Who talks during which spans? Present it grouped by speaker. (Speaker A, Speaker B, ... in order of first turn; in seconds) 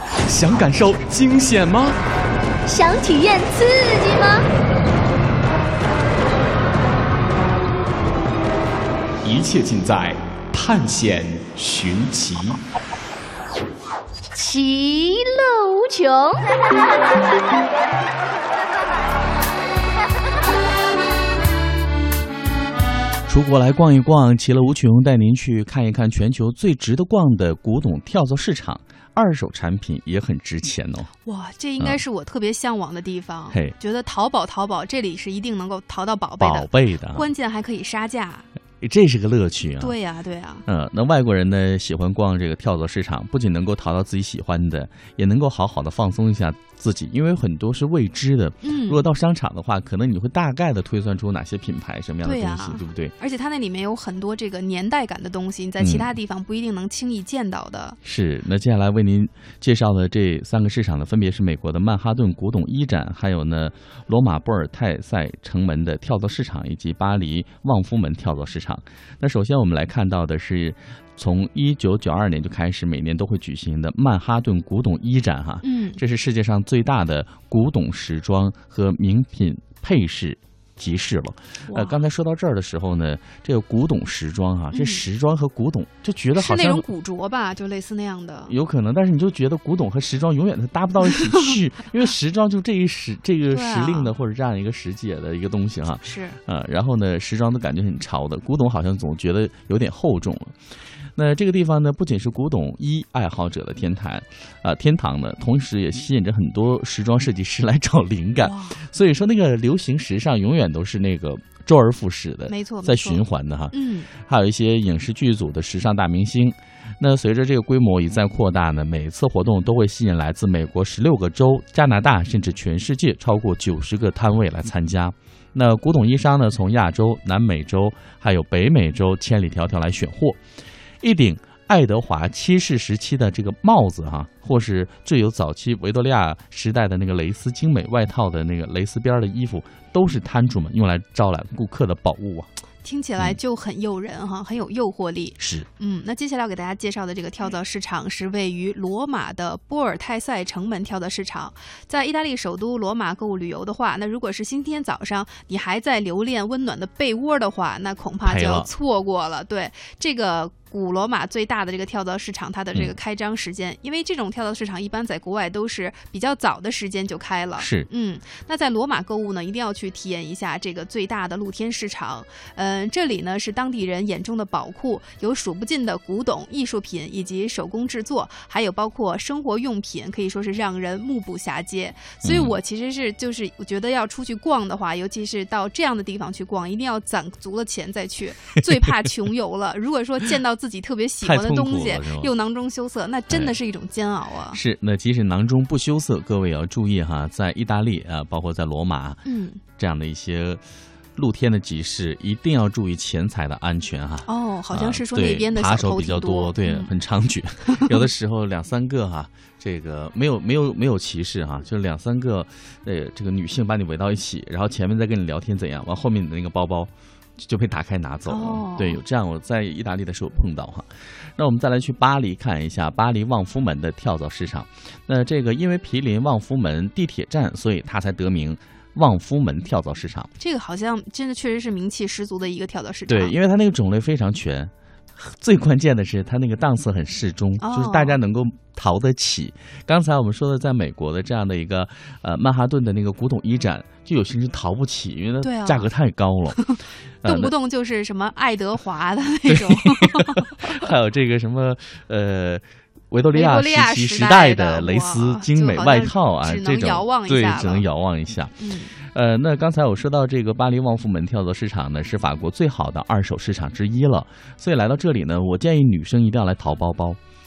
Speaker A: 0.3-1.7, 9.2-12.4
Speaker B: 0.3-1.9, 9.7-12.2, 23.3-31.1, 36.4-37.3, 38.8-40.0, 40.7-53.1, 55.8-56.1, 58.0-86.9, 88.5-100.5, 101.2-130.4, 131.0-142.5, 145.4-145.7, 158.2-158.7, 167.6-167.9, 182.2-182.6, 191.2-192.3, 193.3-193.6, 194.5-200.6, 201.2-230.3, 233.1-246.6, 247.2-247.5, 249.5-267.2
Speaker C: 2.7-4.5, 14.3-16.6
Speaker D: 31.2-38.5, 39.8-40.6, 48.6-49.1, 52.2-58.0, 75.6-76.0, 81.7-82.0, 84.7-85.0, 86.4-88.5, 93.5-94.1, 96.0-96.4, 108.4-108.8, 112.5-114.1, 142.8-194.6, 199.2-199.6, 204.2-206.9, 207.7-208.0, 218.3-219.0, 230.4-233.3, 237.6-238.2, 245.4-245.9, 246.5-250.8, 253.3-257.9, 258.6-258.9